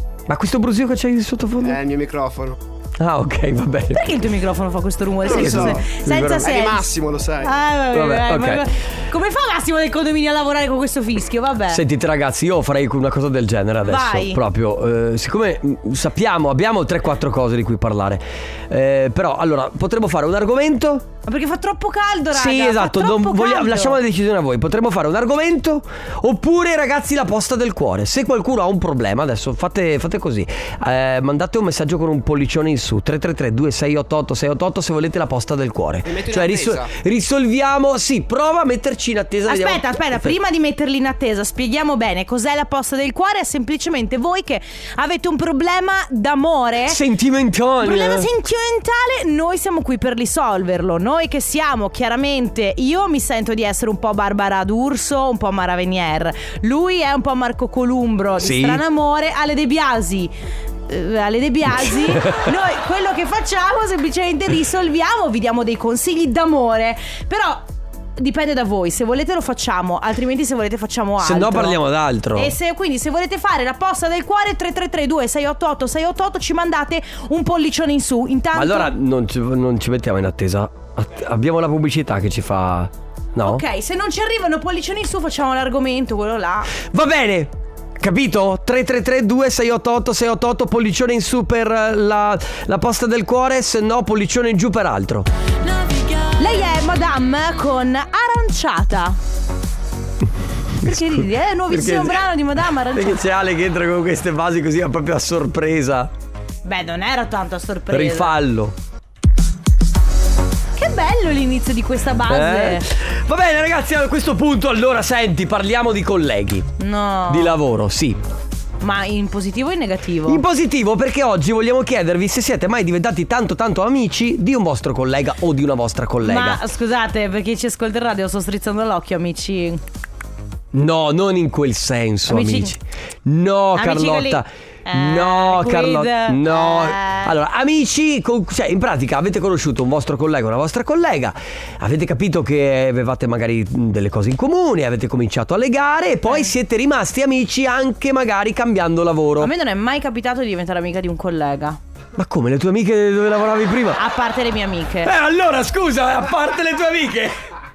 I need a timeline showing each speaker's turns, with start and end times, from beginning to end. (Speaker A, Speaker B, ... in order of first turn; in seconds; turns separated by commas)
Speaker A: 0.3-1.8, Speaker B: 1.6-2.6, Speaker A: 3.0-4.1, Speaker C: 3.9-6.9, Speaker B: 5.2-5.8, Speaker A: 5.2-6.5, Speaker B: 6.4-7.5, Speaker C: 7.4-11.8, Speaker A: 7.9-8.6, Speaker A: 11.7-21.1, Speaker C: 13.8-14.4, Speaker C: 21.2-24.0, Speaker A: 22.3-40.4, Speaker B: 36.0-36.9, Speaker C: 39.5-47.0, Speaker A: 46.9-48.3, Speaker C: 47.8-60.3, Speaker A: 58.4-58.8, Speaker C: 60.9-67.6, Speaker A: 61.9-62.5, Speaker C: 68.2-71.8, Speaker A: 71.2-72.5, Speaker C: 72.3-78.9, Speaker A: 78.5-83.6, Speaker C: 83.4-86.7, Speaker A: 86.8-95.3, Speaker C: 96.3-99.2, Speaker A: 100.8-102.3, Speaker C: 100.8-103.2, Speaker A: 102.9-106.1, Speaker C: 106.6-108.3, Speaker A: 107.9-108.8, Speaker C: 110.8-112.8, Speaker A: 112.3-116.7, Speaker C: 116.8-117.6, Speaker A: 117.3-118.2, Speaker C: 118.8-120.4, Speaker A: 120.2-126.6, Speaker C: 126.2-129.8, Speaker A: 130.7-149.5, Speaker C: 132.3-132.7, Speaker C: 133.8-137.3, Speaker C: 149.4-151.8, Speaker A: 152.2-154.0, Speaker C: 154.0-155.1, Speaker A: 155.0-157.4